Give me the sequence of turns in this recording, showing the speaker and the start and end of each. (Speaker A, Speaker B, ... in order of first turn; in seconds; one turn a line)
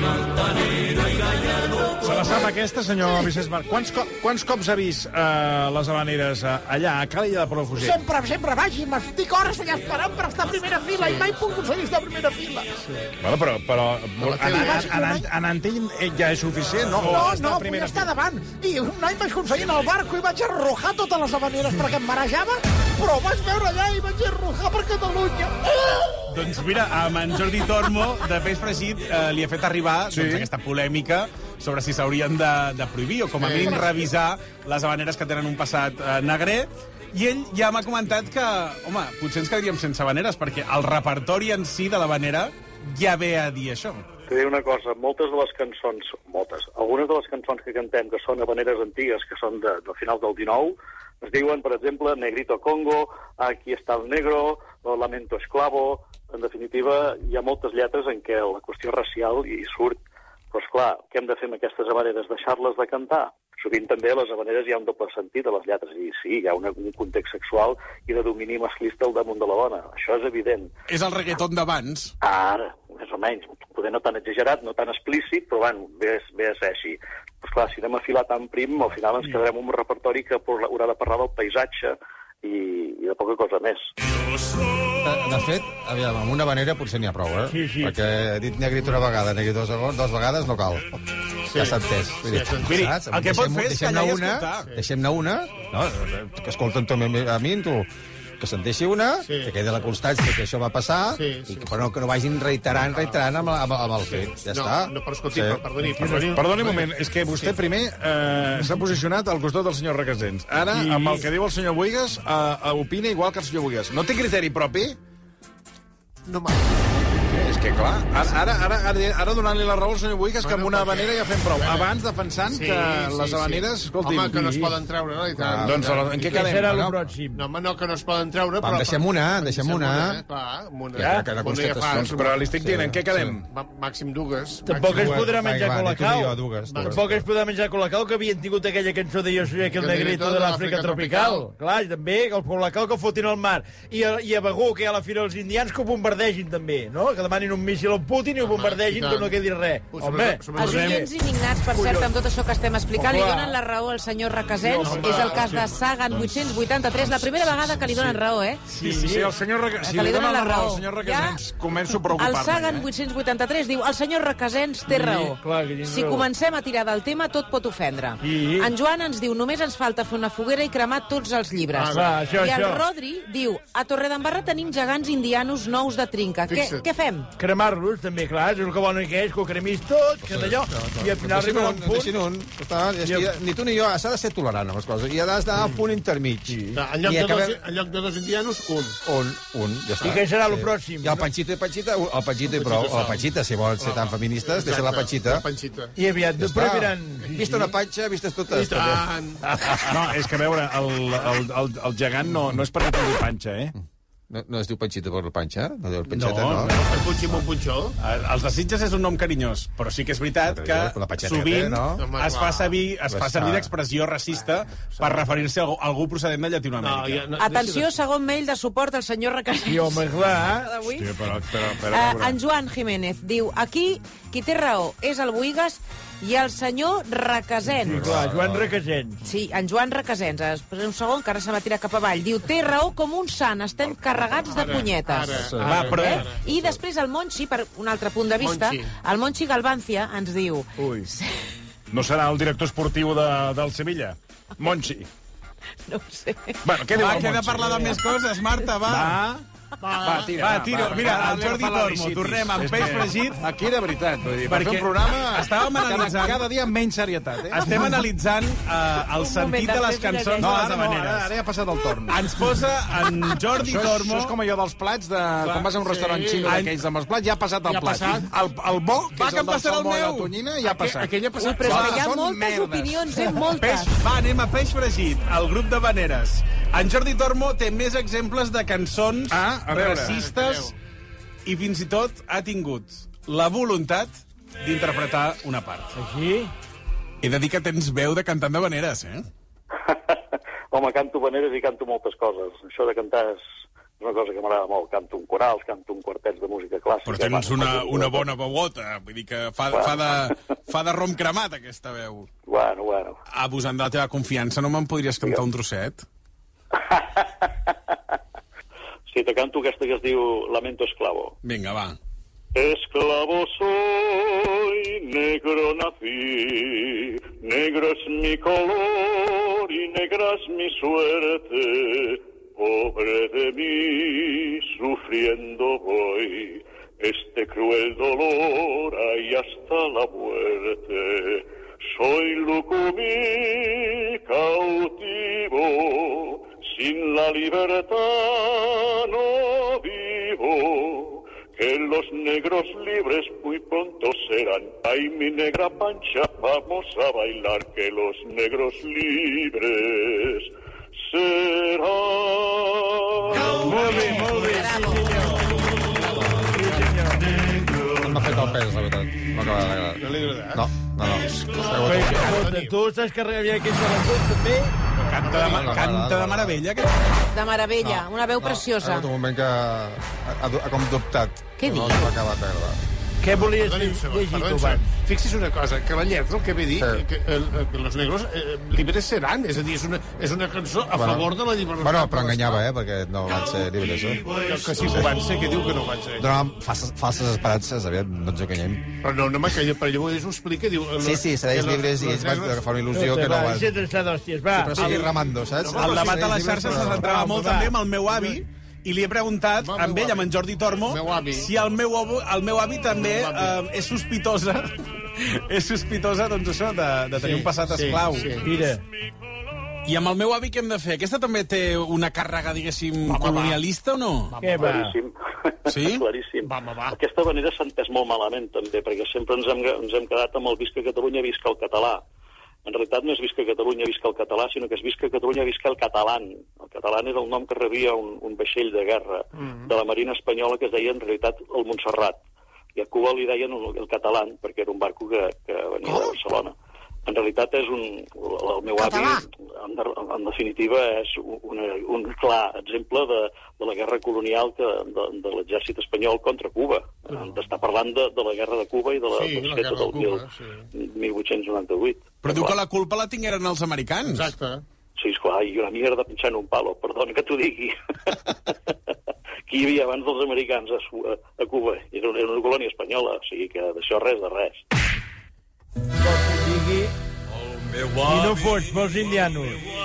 Speaker A: 2.0-8.0
Speaker B: 7.8-12.8
Speaker C: 11.0-11.4
Speaker C: 12.8-13.1
Speaker A: 13.2-18.1
Speaker C: 14.2-15.0
Speaker B: 14.6-15.3
Speaker B: 17.0-26.1
Speaker D: 26.3-44.1
Speaker A: 30.1-30.5
Speaker C: 33.4-34.0
Speaker E: 44.3-60.0
Speaker E: 60.5-70.7
Speaker D: 70.9-72.1
Speaker E: 72.2-83.9
Speaker F: 85.0-91.0
Speaker G: 87.5-87.9
Speaker F: 91.5-97.9
Speaker C: 91.5-92.9
Speaker D: 92.6-94.7
Speaker F: 98.4-105.7
Speaker C: 99.2-99.5
Speaker C: 101.1-101.8
Speaker C: 102.9-103.3
Speaker C: 104.0-107.6
Speaker A: 106.2-115.0
Speaker G: 110.7-111.3
Speaker C: 116.3-117.0
Speaker A: 117.3-124.8
Speaker C: 120.4-121.9
Speaker C: 122.5-126.4
Speaker F: 125.3-126.9
Speaker A: 125.6-127.0
Speaker G: 126.3-127.5
Speaker C: 127.3-132.4
Speaker F: 128.6-130.2
Speaker F: 130.9-133.4
Speaker G: 131.0-131.3
Speaker A: 132.0-133.4
Speaker C: 133.5-135.3
Speaker G: 134.7-151.1
Speaker F: 134.9-137.2
Speaker C: 136.7-137.0
Speaker C: 139.8-141.4
Speaker C: 148.4-149.4
Speaker C: 149.9-151.1
Speaker H: 150.6-158.7
Speaker G: 151.7-152.1
Speaker G: 152.9-153.6
Speaker G: 154.6-155.5
Speaker C: 154.8-155.9
Speaker G: 158.7-159.3
Speaker A: 158.8-162.9
Speaker H: 159.8-161.4
Speaker H: 162.1-177.3
Speaker G: 164.9-166.3
Speaker G: 168.2-168.7
Speaker C: 171.7-172.4
Speaker G: 171.9-172.8
Speaker C: 176.5-176.9
Speaker G: 177.4-182.1
Speaker F: 180.2-187.6
Speaker G: 183.0-183.3
Speaker C: 186.7-189.0
Speaker F: 189.1-195.5
Speaker G: 190.0-191.2
Speaker C: 192.5-193.2
Speaker C: 193.8-195.9
Speaker G: 196.0-197.7
Speaker F: 196.4-199.9
Speaker C: 198.5-199.5
Speaker A: 199.9-203.8
Speaker F: 204.3-207.1
Speaker D: 206.1-206.7
Speaker C: 206.7-207.9
Speaker D: 208.0-217.3
Speaker F: 210.4-212.1
Speaker C: 212.0-212.8
Speaker F: 213.1-213.7
Speaker C: 214.8-215.3
Speaker C: 216.8-217.9
Speaker H: 217.4-221.1
Speaker G: 219.7-220.7
Speaker A: 220.9-222.4
Speaker H: 221.8-228.0
Speaker A: 227.9-228.7
Speaker G: 227.9-229.2
Speaker H: 229.2-241.3
Speaker C: 234.5-236.6
Speaker F: 235.3-236.0
Speaker D: 235.6-236.3
Speaker C: 238.4-238.9
Speaker A: 240.8-241.1
Speaker A: 241.9-245.1
Speaker H: 245.9-246.6
Speaker A: 246.6-248.0
Speaker D: 247.0-249.2
Speaker A: 248.8-249.4
Speaker C: 249.8-250.3
Speaker A: 250.0-258.1
Speaker D: 250.4-253.4
Speaker D: 254.5-256.5
Speaker D: 257.5-261.3
Speaker H: 259.1-260.5
Speaker A: 260.4-262.6
Speaker D: 262.1-264.4
Speaker A: 263.5-273.5
Speaker D: 265.4-265.7
Speaker C: 265.8-266.6
Speaker D: 266.4-266.7
Speaker C: 267.6-268.3
Speaker D: 269.2-270.3
Speaker C: 270.6-272.0
Speaker H: 271.4-273.9
Speaker D: 271.6-272.0
Speaker D: 273.5-280.7
Speaker A: 279.3-280.2
Speaker C: 279.8-280.8
Speaker D: 281.5-284.1
Speaker D: 284.6-285.9
Speaker G: 286.0-286.5
Speaker D: 287.2-289.3
Speaker E: 289.8-293.4
Speaker E: 294.0-298.3
Speaker D: 297.1-302.3
Speaker E: 299.7-300.3
Speaker E: 302.5-303.2
Speaker D: 303.3-306.0
Speaker E: 306.7-307.9
Speaker E: 309.1-311.4
Speaker D: 311.4-312.0
Speaker E: 312.5-350.5
Speaker E: 351.1-353.6
Speaker G: 353.3-355.5
Speaker H: 353.6-355.4
Speaker C: 355.6-357.0
Speaker F: 356.1-356.5
Speaker G: 356.4-357.3
Speaker F: 357.9-362.5
Speaker C: 360.0-360.6
Speaker C: 361.8-362.8
Speaker G: 361.9-364.8
Speaker D: 365.1-367.1
Speaker C: 365.2-365.9
Speaker F: 365.3-366.6
Speaker H: 367.3-369.1
Speaker F: 367.8-372.8
Speaker H: 371.6-372.2
Speaker G: 373.2-374.9
Speaker C: 373.4-382.6
Speaker F: 376.8-377.0
Speaker F: 380.9-385.2
Speaker C: 384.3-386.3
Speaker F: 386.2-389.0
Speaker C: 389.0-392.6
Speaker F: 391.0-393.7
Speaker G: 392.9-394.9
Speaker F: 394.5-397.1
Speaker D: 394.8-408.3
Speaker C: 394.8-396.5
Speaker G: 396.7-397.8
Speaker C: 399.6-401.5
Speaker C: 402.9-403.6
Speaker C: 407.2-408.5
Speaker G: 408.4-408.8
Speaker D: 409.9-414.4
Speaker C: 413.1-413.6
Speaker C: 414.3-414.9
Speaker G: 414.4-414.9
Speaker E: 414.6-422.0
Speaker D: 415.7-416.0
Speaker C: 416.4-417.0
Speaker E: 422.6-432.2
Speaker C: 429.4-429.7
Speaker E: 432.8-452.6
Speaker B: 435.9-436.1
Speaker B: 438.8-439.1
Speaker C: 447.1-447.4
Speaker C: 449.1-450.7
Speaker D: 452.2-454.3
Speaker C: 454.1-454.6
Speaker E: 455.0-458.5
Speaker E: 459.5-464.6
Speaker G: 466.0-466.9
Speaker G: 468.0-469.6